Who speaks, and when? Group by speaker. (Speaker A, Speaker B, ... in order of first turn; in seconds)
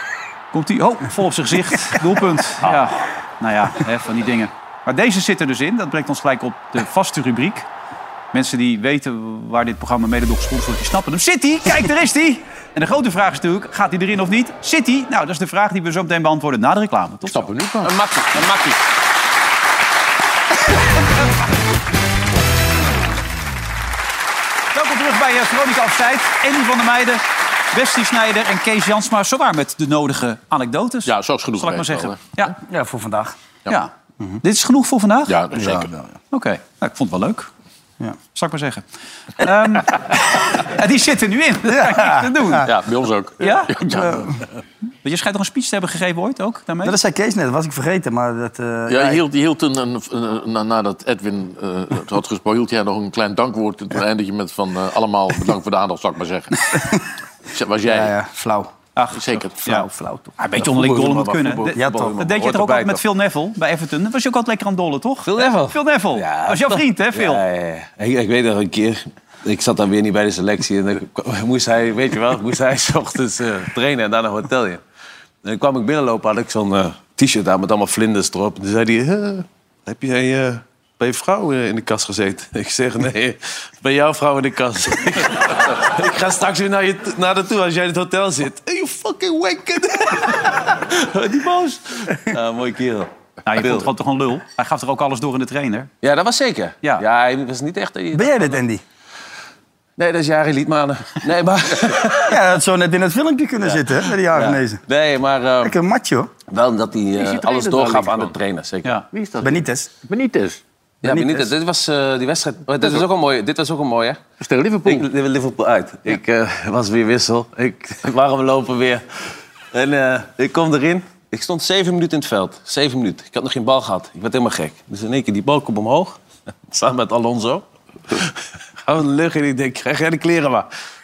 Speaker A: 0.5-7.7, 8.3-17.5, 24.7-32.5, 34.4-35.3, 36.3-37.5, 38.3-38.8, 39.4-42.7, 43.4-43.8, 45.0-47.0, 59.0-59.9, 60.4-67.4, 93.4-95.9
Speaker B: 17.3-18.0, 31.1-32.2, 35.3-35.9, 42.6-44.3, 48.9-56.8, 57.5-58.1, 59.1-59.6, 107.2-108.3, 109.1-110.6, 114.4-115.1
Speaker C: 17.8-18.8, 60.5-63.0, 65.2-74.8, 75.4-93.9, 96.0-98.5, 100.0-102.4, 104.3-105.7, 106.5-109.0, 111.0-114.2, 114.8-130.7
Speaker D: 32.7-33.4, 35.5-36.1, 41.7-42.6, 43.9-44.3, 46.8-49.2, 57.9-58.7, 59.7-60.2, 61.7-62.1, 98.1-98.8, 102.2-104.8, 105.6-106.3, 109.4-109.9, 111.0-111.5